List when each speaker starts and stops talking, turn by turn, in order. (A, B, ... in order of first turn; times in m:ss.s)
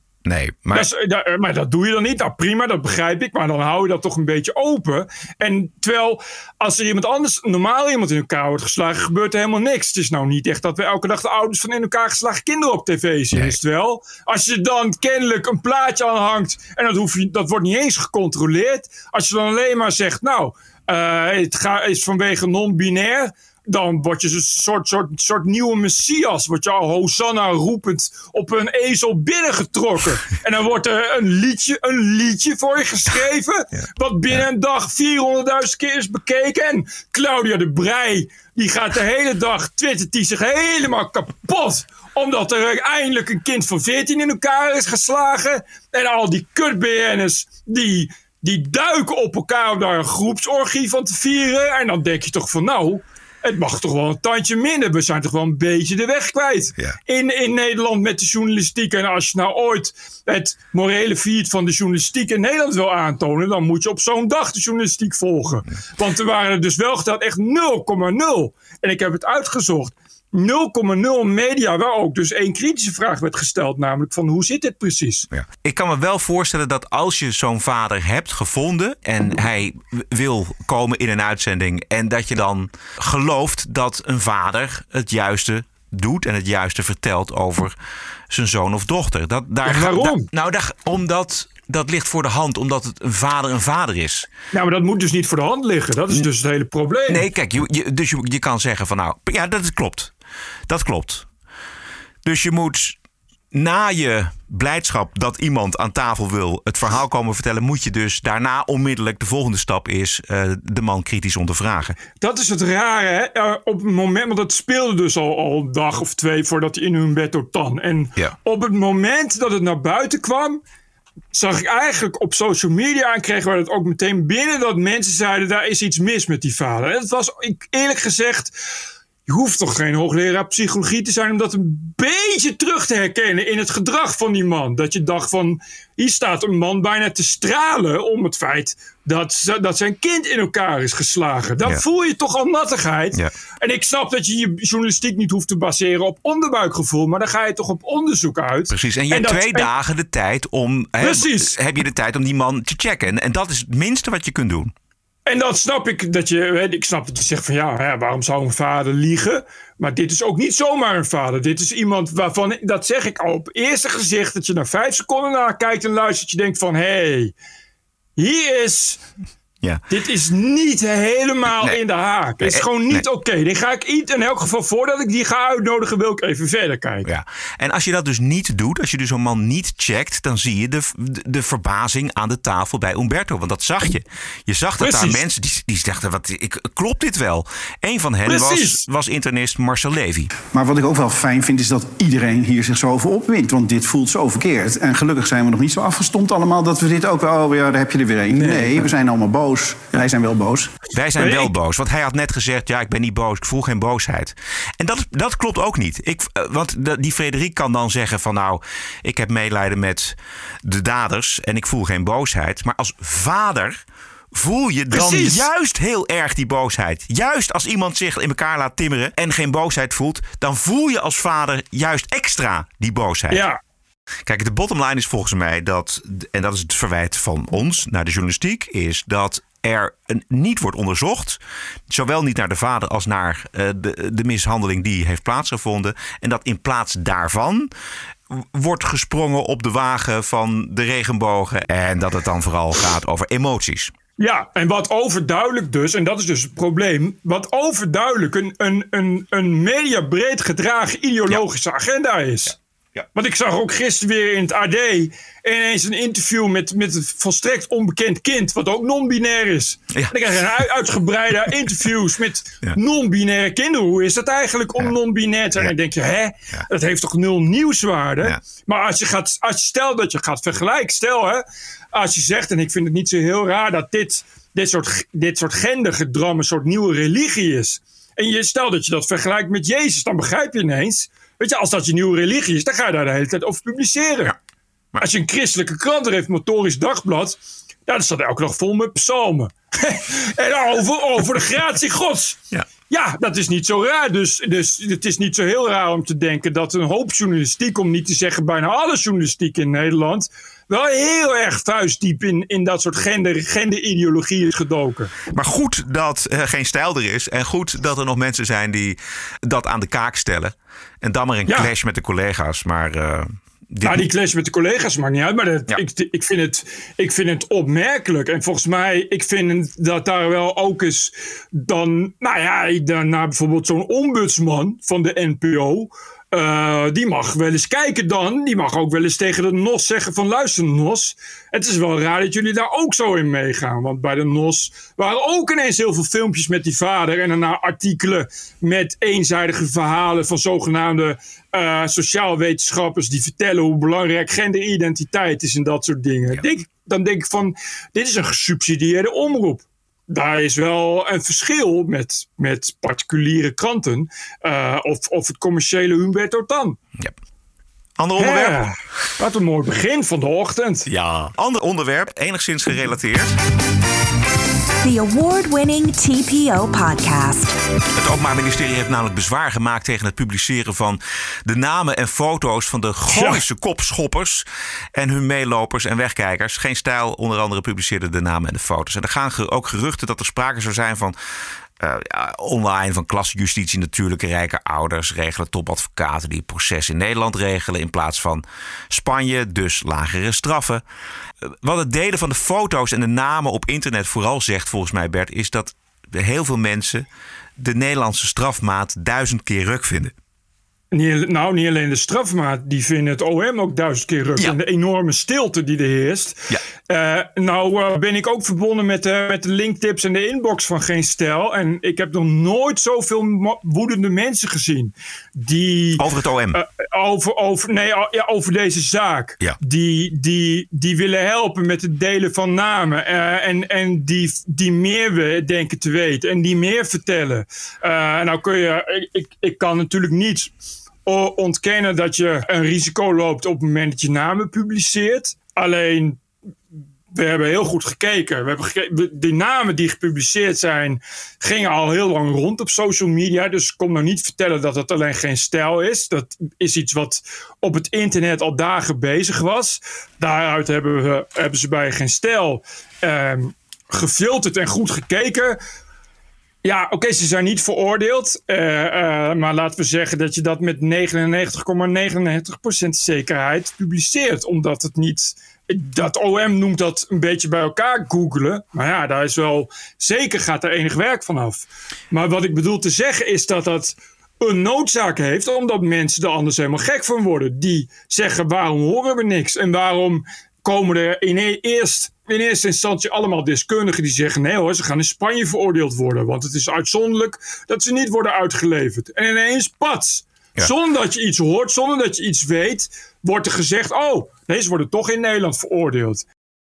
0:00.2-0:00.9 A
0:00.7-1:15.3 B
1:15.3-1:27.7 A
1:28.3-1:34.3 A
1:29.6-1:30.3 B
1:34.5-1:37.2 B
1:37.1-1:40.1 A
1:40.7-1:41.3 A
1:42.2-1:43.0 A
1:43.5-1:52.0 A
1:52.2-2:00.6 B
2:01.3-2:08.5 B
2:09.3-2:29.7 B
2:28.7-2:34.7 A
2:31.0-2:31.5 B
2:35.2-2:47.3 B
2:48.2-2:49.0 B
2:49.9-2:57.1 B
2:52.4-2:53.0 A
2:57.0-3:10.3 A
3:04.8-3:05.2 B
3:08.2-3:08.8 B
3:10.5-3:20.7 C
3:20.9-3:33.8 A
3:21.2-3:21.5 B
3:34.3-3:43.4 A
3:34.9-3:35.4 B
3:43.3-3:43.6 B
3:44.3-3:51.4 A
3:51.9-3:57.7 A
3:58.3-4:03.9 A
4:04.2-4:12.5 B
4:13.1-4:44.3 B
4:45.0-5:05.1 B
5:05.3-5:14.1 A
5:13.8-5:56.8 B
5:58.0-5:58.6 A
5:58.2-6:00.8 B
6:00.9-6:03.3 A
6:04.8-6:07.5 D
6:08.0-6:21.1 A
6:13.1-6:13.4 B
6:21.8-6:30.8 A
6:31.4-6:37.0 A
6:37.6-6:40.1 A
6:40.9-6:56.0 B
6:56.0-6:56.6 A
6:56.5-7:10.5 B
7:11.0-7:16.2 B
7:17.1-7:35.6 B
7:36.6-8:16.2 B